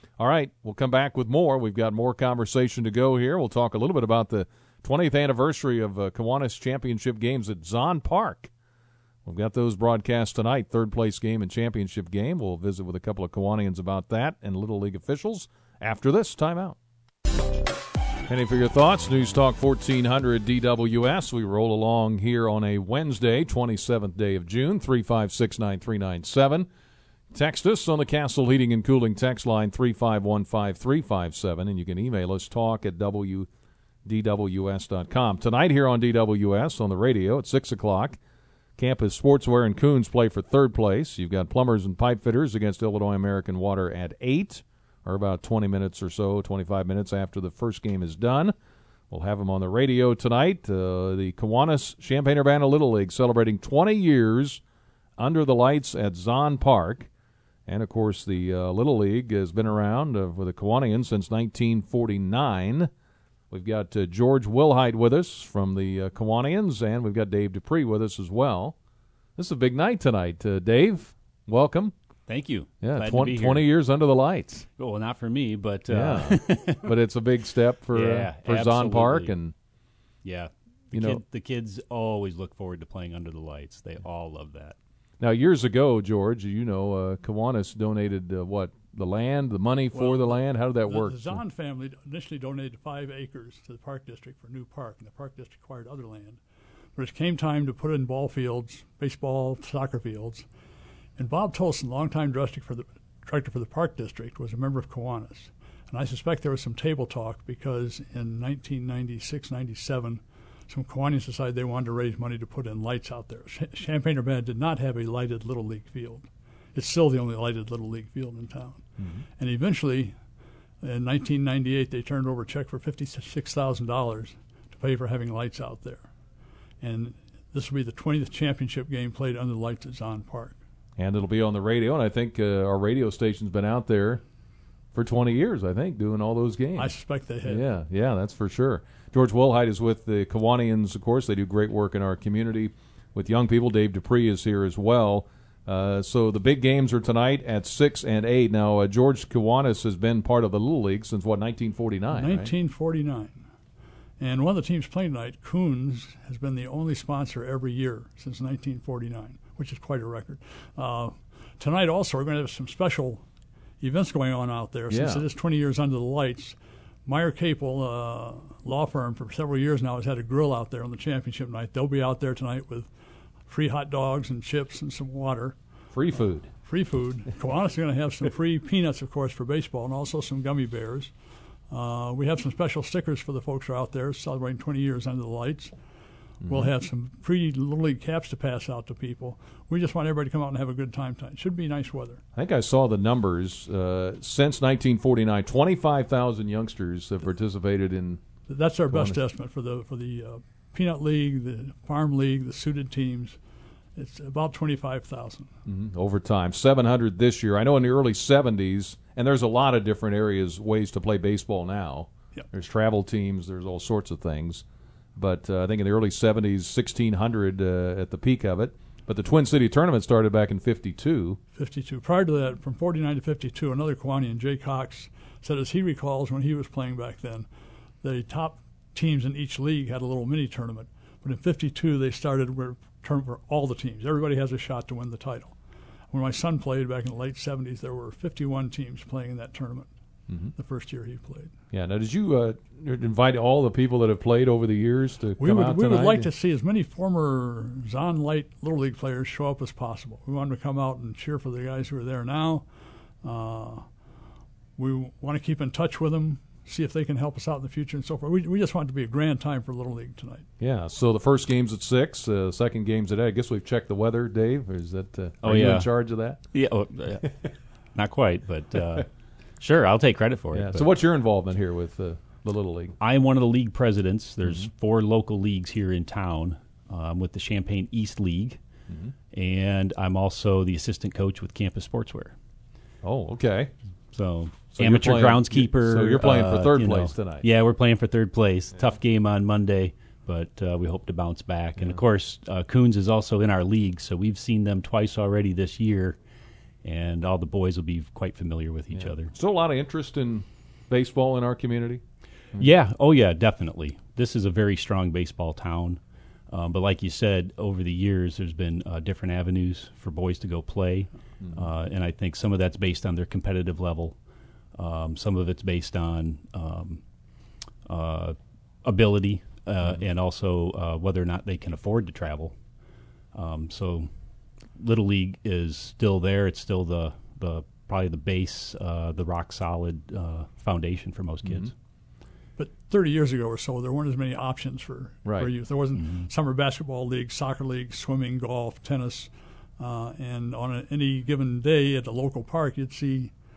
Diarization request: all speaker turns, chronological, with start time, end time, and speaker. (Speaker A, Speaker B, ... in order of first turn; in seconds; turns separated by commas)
Speaker A: 0.2-8.5, Speaker A: 9.2-16.8, Speaker A: 18.3-26.7, Speaker A: 27.3-33.5, Speaker A: 34.0-38.2, Speaker A: 38.8-48.5, Speaker A: 49.1-54.6, Speaker A: 55.2-57.1, Speaker A: 57.7-62.9, Speaker A: 63.5-68.7, Speaker A: 69.4-71.9, Speaker B: 72.3-73.7, Speaker A: 72.8-74.7, Speaker B: 74.8-76.9, Speaker A: 75.9-79.5, Speaker B: 77.9-79.4, Speaker B: 80.2-84.8, Speaker A: 80.9-81.2, Speaker A: 85.2-91.4, Speaker C: 89.9-96.4, Speaker C: 97.0-100.5, Speaker C: 101.2-120.2, Speaker A: 119.0-119.2, Speaker C: 120.8-126.1, Speaker C: 126.8-130.6, Speaker A: 131.0-134.2, Speaker A: 134.9-152.5, Speaker C: 136.8-137.7, Speaker C: 152.1-153.4, Speaker C: 154.2-163.2, Speaker C: 163.8-172.9, Speaker A: 164.9-165.2, Speaker C: 173.4-175.6, Speaker A: 175.9-176.5, Speaker C: 176.6-181.1, Speaker C: 181.7-185.8, Speaker A: 186.4-186.7, Speaker C: 186.5-192.2, Speaker A: 192.3-198.2, Speaker C: 198.5-203.4, Speaker A: 198.8-199.2, Speaker C: 203.9-205.5, Speaker A: 205.7-214.6, Speaker A: 215.2-221.4, Speaker C: 221.5-227.5, Speaker C: 228.0-235.6, Speaker C: 236.1-239.9, Speaker C: 240.5-241.5, Speaker A: 241.7-246.3, Speaker C: 245.4-252.7, Speaker C: 253.2-253.9, Speaker C: 254.8-260.5, Speaker A: 260.6-266.5, Speaker B: 265.4-265.9, Speaker B: 266.5-269.1, Speaker B: 269.6-270.9, Speaker A: 270.5-272.9, Speaker B: 273.0-278.6, Speaker A: 274.4-274.7, Speaker A: 278.9-279.1, Speaker B: 279.3-282.4, Speaker A: 283.0-283.7, Speaker B: 284.1-296.2, Speaker A: 284.7-287.4, Speaker A: 291.8-292.0, Speaker B: 296.8-299.3, Speaker A: 298.9-302.0, Speaker B: 302.6-322.6, Speaker A: 311.4-311.7, Speaker B: 323.3-331.7, Speaker A: 331.4-331.7, Speaker C: 332.6-343.3, Speaker A: 335.2-335.5, Speaker B: 335.9-336.3